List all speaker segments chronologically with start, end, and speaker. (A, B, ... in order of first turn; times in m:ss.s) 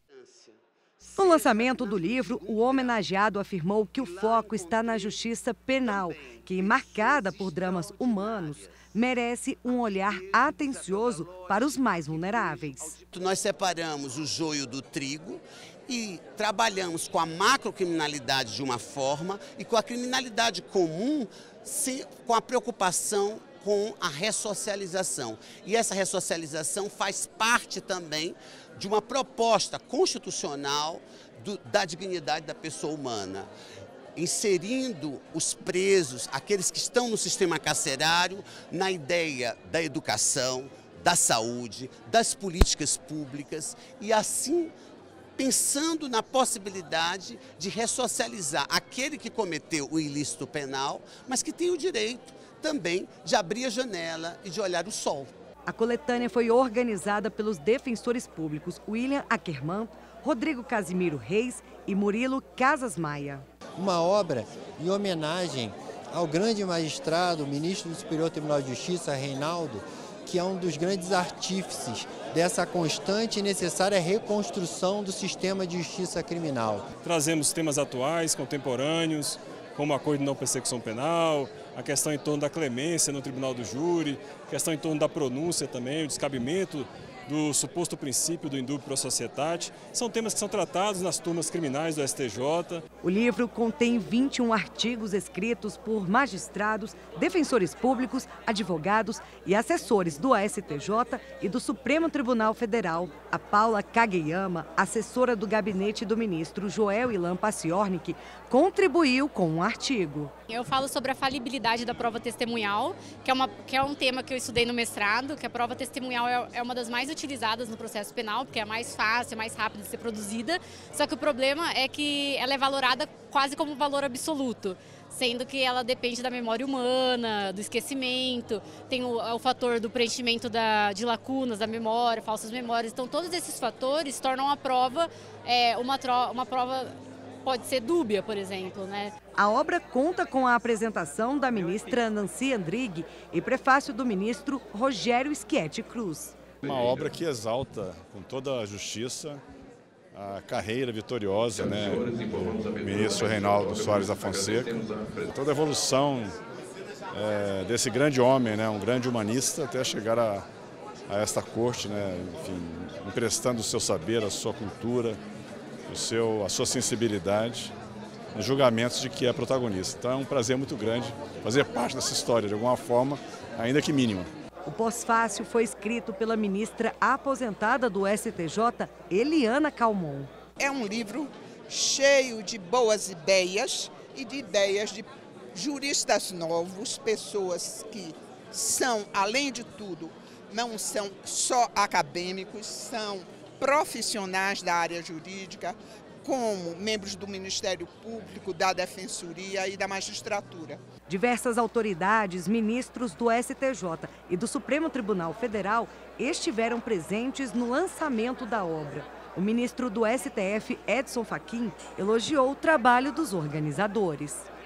0:00.2-0:01.1 A
0:01.2-0:13.0 B
0:04.3-0:04.8 A
0:13.0-0:33.5 A
0:34.2-0:44.7 A
0:45.4-0:55.3 A
0:55.7-1:03.5 B
1:03.8-1:16.9 C
1:17.0-1:32.8 D
1:33.0-1:50.3 B
1:50.5-2:16.9 E
2:17.4-2:19.1 E
2:19.4-2:26.4 B
2:26.6-2:29.4 F
2:30.1-2:36.4 F
2:31.6-2:35.3 D
2:37.1-2:40.5 F
2:41.1-2:45.2 F
2:45.9-2:47.7 F
2:48.4-2:54.3 F
2:54.7-3:00.3 B
3:00.6-3:20.8 G
3:21.1-3:34.4 B